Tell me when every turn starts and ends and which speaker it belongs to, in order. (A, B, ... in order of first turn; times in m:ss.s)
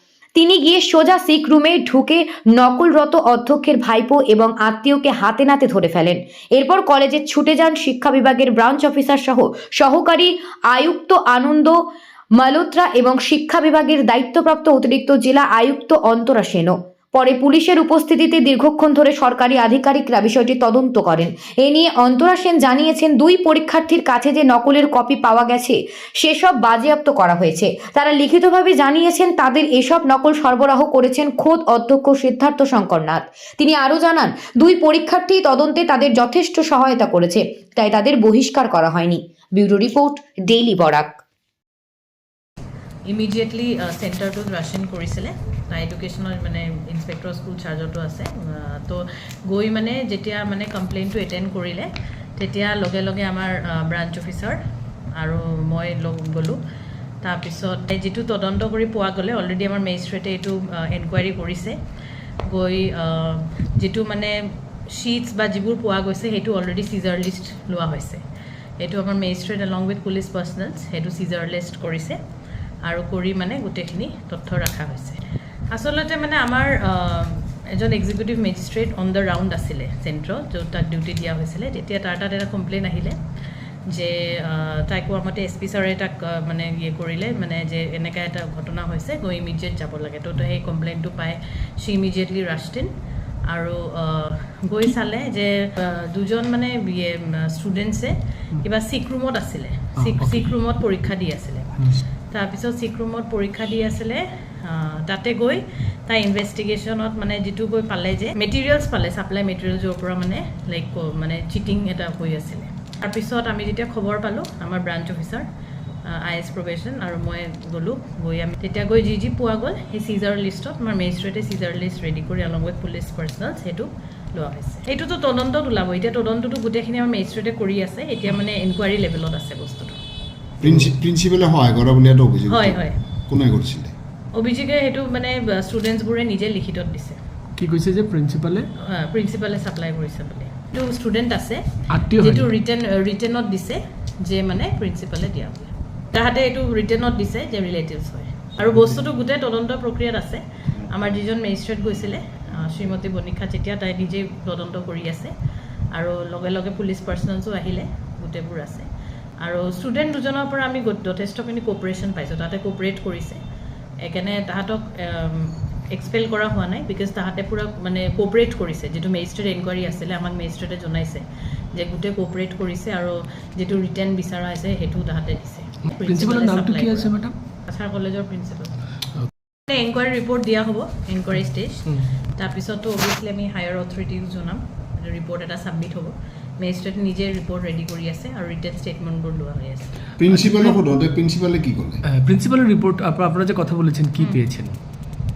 0:00.4-0:11.8 A
0:12.4-0:41.2 A
0:43.1-0:54.6 B
0:55.2-0:56.6 B
0:57.2-1:01.8 B
1:02.5-1:04.4 B
1:04.9-1:08.2 B
1:08.8-1:12.2 B
1:12.8-1:15.2 B
1:15.7-1:23.2 B
1:23.9-1:32.9 B
1:33.5-1:55.5 B
1:40.0-1:40.5 C
1:56.0-2:10.0 B
2:10.6-2:13.9 D
2:10.6-2:10.9 C
2:12.5-2:13.0 B
2:14.3-2:17.2 B
2:17.6-2:18.7 C
2:18.8-2:21.6 B
2:21.9-2:22.5 C
2:22.2-2:35.3 B
2:35.9-2:38.9 B
2:39.4-2:43.4 B
2:44.0-2:58.9 B
2:56.0-2:57.4 C
2:59.7-3:10.0 B
3:10.2-3:12.0 D
3:10.3-3:10.8 C
3:12.1-3:14.7 C
3:14.2-3:14.5 B